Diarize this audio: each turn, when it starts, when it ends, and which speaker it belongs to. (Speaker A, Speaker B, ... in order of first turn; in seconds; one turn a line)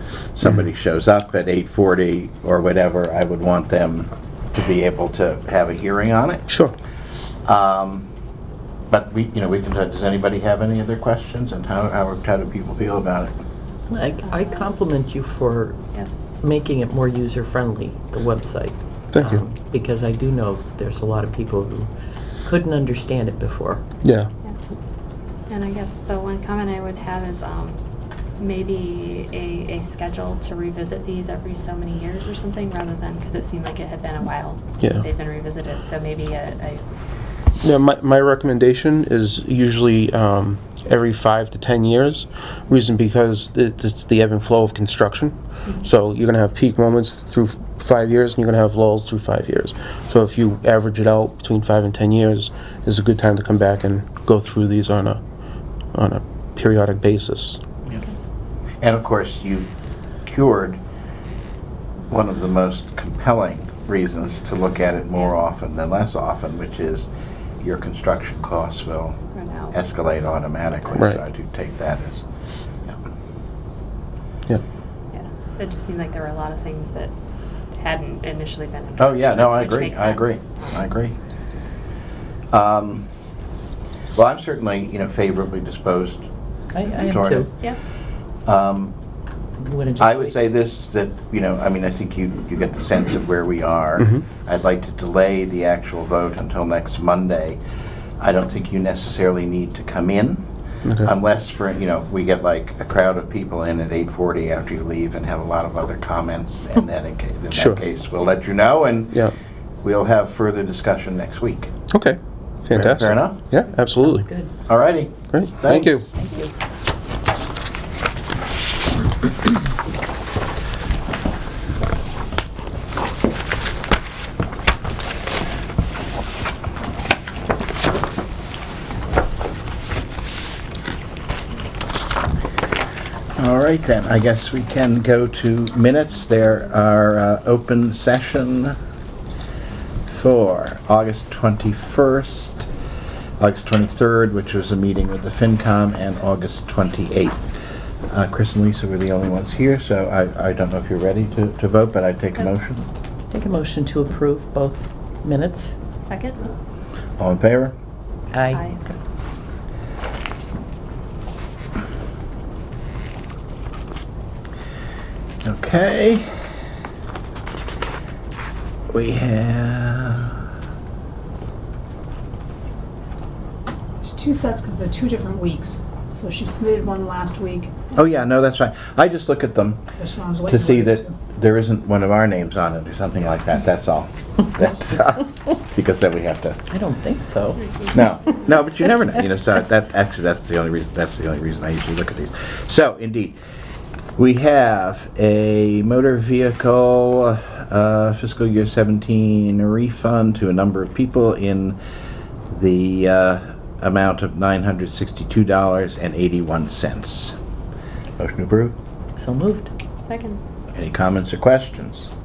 Speaker A: 0.3-6.5
Speaker B: 6.5-6.7
Speaker A: 7.5-8.1
Speaker A: 8.9-13.3
Speaker C: 13.9-23.8
Speaker D: 14.2-14.7
Speaker D: 15.9-16.4
Speaker B: 19.1-19.4
Speaker B: 24.0-24.3
Speaker D: 25.5-27.8
Speaker D: 28.4-36.9
Speaker B: 37.6-55.2
Speaker B: 55.9-57.6
Speaker A: 58.8-59.7
Speaker A: 60.2-60.8
Speaker A: 62.1-67.1
Speaker A: 67.6-69.2
Speaker D: 69.3-69.8
Speaker A: 69.7-72.2
Speaker D: 75.1-77.1
Speaker D: 77.7-80.8
Speaker A: 79.0-81.2
Speaker A: 82.5-83.1
Speaker A: 84.2-86.3
Speaker C: 86.7-87.5
Speaker A: 86.9-87.5
Speaker A: 88.5-89.0
Speaker C: 89.6-90.3
Speaker A: 90.0-97.6
Speaker B: 94.0-94.2
Speaker A: 98.2-100.5
Speaker B: 100.8-101.1
Speaker A: 101.0-109.2
Speaker B: 107.5-107.8
Speaker A: 109.8-111.7
Speaker B: 111.9-114.3
Speaker A: 112.7-113.4
Speaker C: 114.0-114.5
Speaker A: 114.7-116.1
Speaker B: 115.3-116.1
Speaker C: 116.2-116.5
Speaker A: 133.4-138.8
Speaker A: 140.1-142.7
Speaker A: 143.4-147.4
Speaker A: 148.1-152.9
Speaker C: 153.3-155.7
Speaker D: 156.1-156.5
Speaker A: 157.2-157.8
Speaker C: 158.3-158.7
Speaker D: 158.5-158.8
Speaker A: 165.4-166.3
Speaker A: 168.9-170.4
Speaker E: 174.0-177.9
Speaker A: 177.9-179.8
Speaker E: 180.0-181.2
Speaker A: 180.5-186.6
Speaker C: 186.7-187.7
Speaker D: 187.6-187.9
Speaker A: 187.9-193.4
Speaker A: 194.2-201.8
Speaker A: 202.5-207.4
Speaker A: 208.2-208.8
Speaker C: 209.2-209.7
Speaker D: 210.1-210.4
Speaker A: 210.7-212.1